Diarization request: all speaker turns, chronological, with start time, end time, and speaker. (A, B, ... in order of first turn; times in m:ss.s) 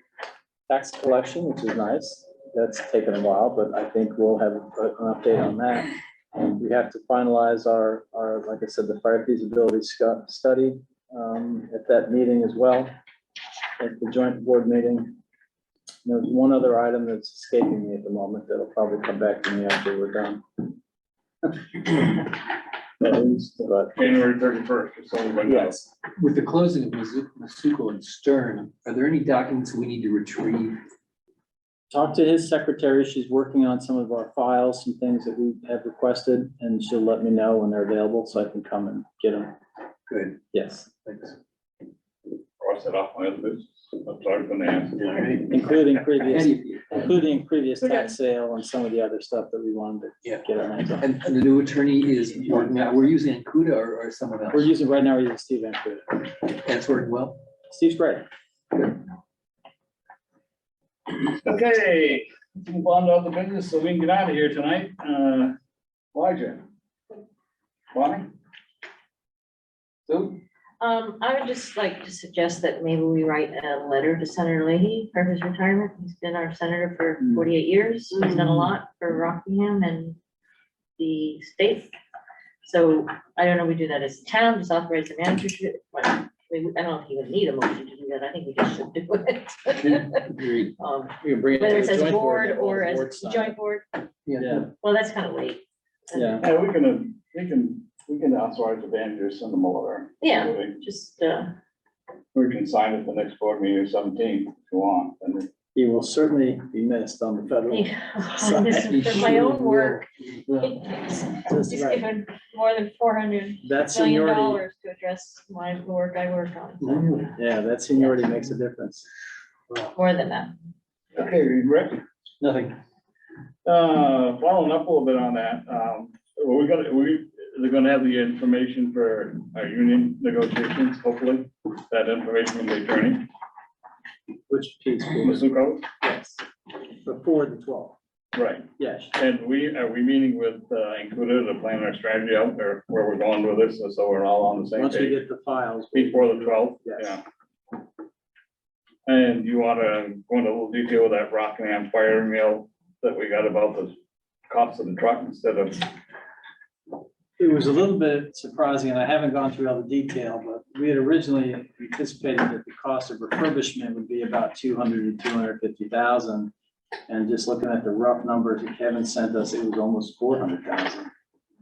0:00.7-0:12.9 A
0:13.8-0:15.2 A
0:16.0-0:20.6 A
0:23.0-0:25.8 B
0:23.7-0:23.9 A
0:25.5-0:25.8 A
0:26.2-0:30.8 C
0:31.9-0:39.5 A
0:40.1-0:40.4 C
0:40.5-0:40.9 A
0:41.1-0:41.3 C
0:42.6-0:45.0 B
0:45.0-0:47.1 C
0:45.5-0:51.1 A
0:51.0-0:54.7 C
0:54.5-0:56.3 A
0:56.6-0:57.4 C
0:57.7-0:58.2 A
1:01.1-1:05.5 B
1:06.1-1:06.6 B
1:07.9-1:08.3 B
1:10.1-1:10.4 B
1:10.8-1:20.2 D
1:21.0-1:21.9 D
1:22.6-1:33.9 D
1:29.8-1:30.8 C
1:31.2-1:33.6 A
1:34.3-1:34.7 C
1:34.4-1:34.7 A
1:34.8-1:36.4 D
1:36.1-1:36.4 A
1:36.4-1:40.8 B
1:40.2-1:41.5 D
1:42.3-1:45.5 B
1:45.8-1:49.3 A
1:47.7-1:50.0 D
1:48.4-1:50.8 C
1:50.6-1:57.3 D
1:51.4-1:52.1 A
1:53.6-1:54.6 A
1:56.8-1:57.3 C
1:57.3-1:59.1 A
1:59.9-2:00.6 D
2:01.2-2:02.0 B
2:02.4-2:02.7 C
2:03.6-2:13.2 B
2:14.5-2:15.5 A
2:15.2-2:15.8 B
2:16.0-2:16.4 A
2:17.0-2:18.0 A
2:18.3-2:25.2 B
2:18.8-2:19.2 A
2:24.8-2:27.2 A
2:25.9-2:27.2 B
2:29.1-2:34.0 B
2:34.5-2:35.8 B
2:37.4-2:46.5 A
2:47.1-2:51.1 A